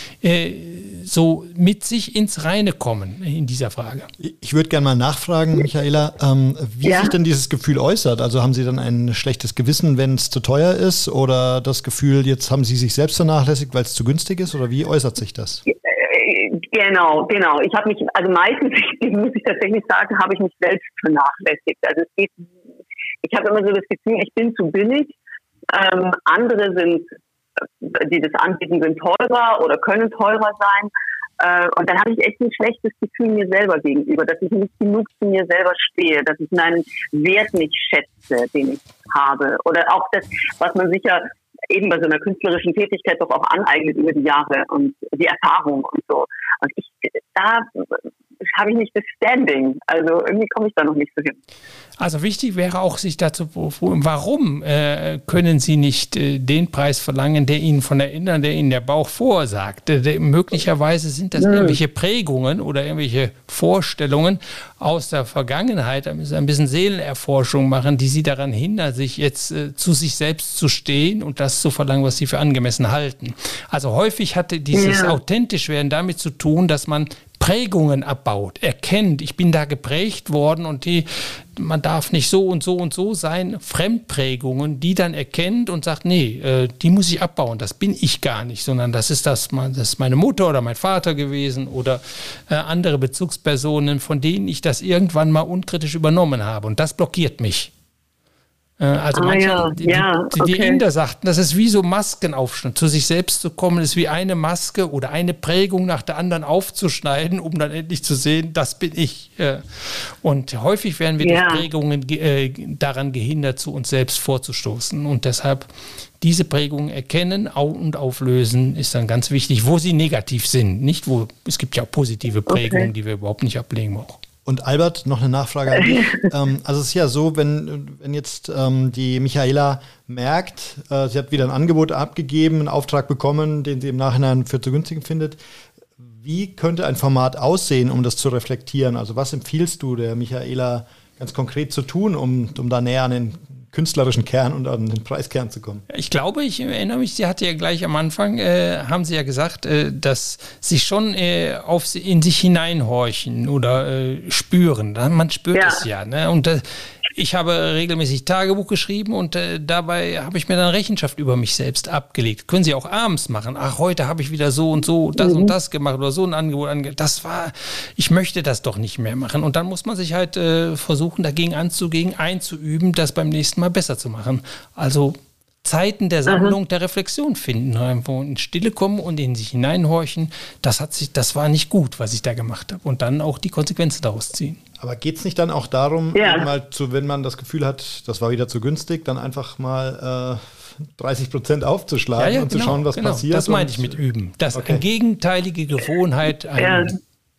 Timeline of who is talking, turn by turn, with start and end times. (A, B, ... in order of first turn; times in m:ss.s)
0:00.2-0:04.1 A
0:04.2-0:15.6 B
0:06.8-0:07.1 C
0:15.7-0:22.5 C
0:23.2-0:25.2 C
0:25.7-0:27.1 C
0:27.8-0:47.9 C
0:48.5-0:51.4 C
0:52.0-1:37.7 A
1:01.4-1:01.8 C
1:14.7-1:15.2 C
1:38.8-1:55.7 A
1:39.2-1:40.8 C
1:51.2-1:51.7 C
1:56.2-2:04.2 A
2:02.5-2:02.9 C
2:04.4-2:15.4 B
2:05.9-2:06.2 C
2:16.2-2:25.8 B
2:25.9-3:04.6 A
2:35.5-2:35.8 C
2:45.2-2:45.5 C
2:56.3-2:56.6 C
3:04.8-3:14.0 B
3:06.2-3:06.5 C
3:12.2-3:17.0 A
3:14.5-3:14.8 B
3:16.6-3:17.0 C